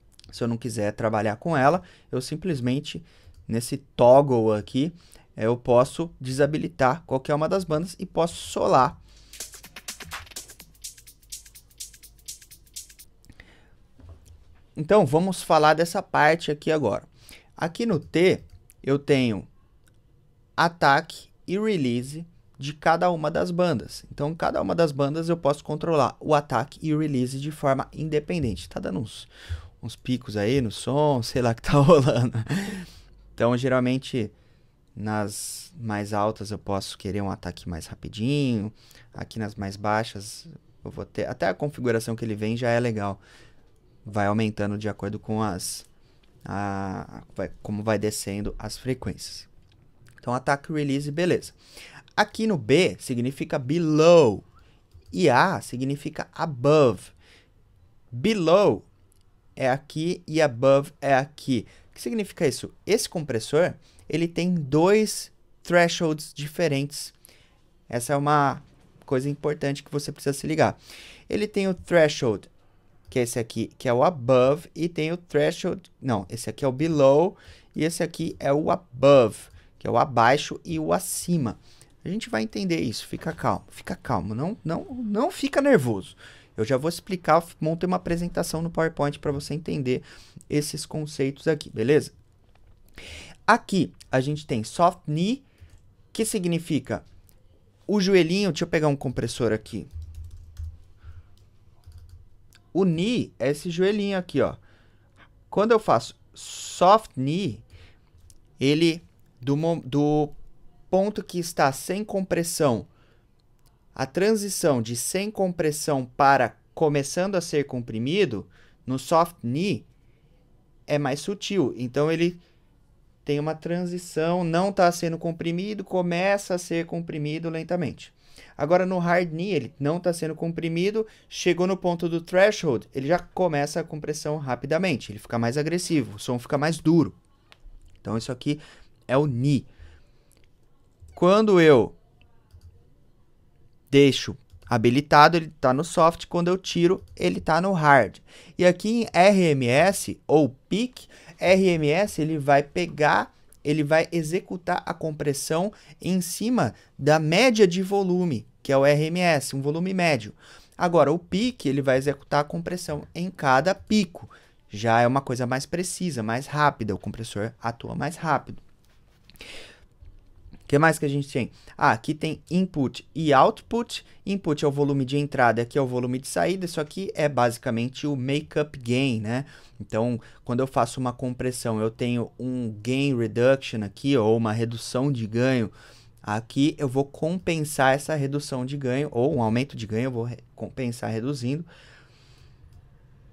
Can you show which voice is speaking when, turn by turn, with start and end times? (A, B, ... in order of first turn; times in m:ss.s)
0:00.3-0:09.0 A
0:14.8-0:19.5 A
0:20.6-0:29.3 A
0:29.8-0:34.3 A
0:35.0-0:43.2 A
0:44.0-0:45.9 A
0:46.4-0:49.5 A
0:50.2-0:51.6 A
0:52.2-0:54.4 A
0:55.1-0:57.1 A
0:58.1-0:58.9 A
0:59.6-1:07.2 A
1:07.9-1:10.8 A
1:11.3-1:12.5 A
1:13.1-1:32.2 A
1:33.5-1:35.4 A
1:36.1-1:37.1 A
1:37.9-1:39.9 A
1:42.7-1:44.6 A
1:45.5-1:47.6 A
1:48.6-1:50.4 A
1:50.9-1:52.9 A
1:54.0-1:59.9 A
2:00.9-2:02.4 A
2:03.2-2:17.2 A
2:18.0-2:19.7 A
2:21.1-2:22.0 A
2:23.9-2:48.6 A
2:50.7-3:11.7 A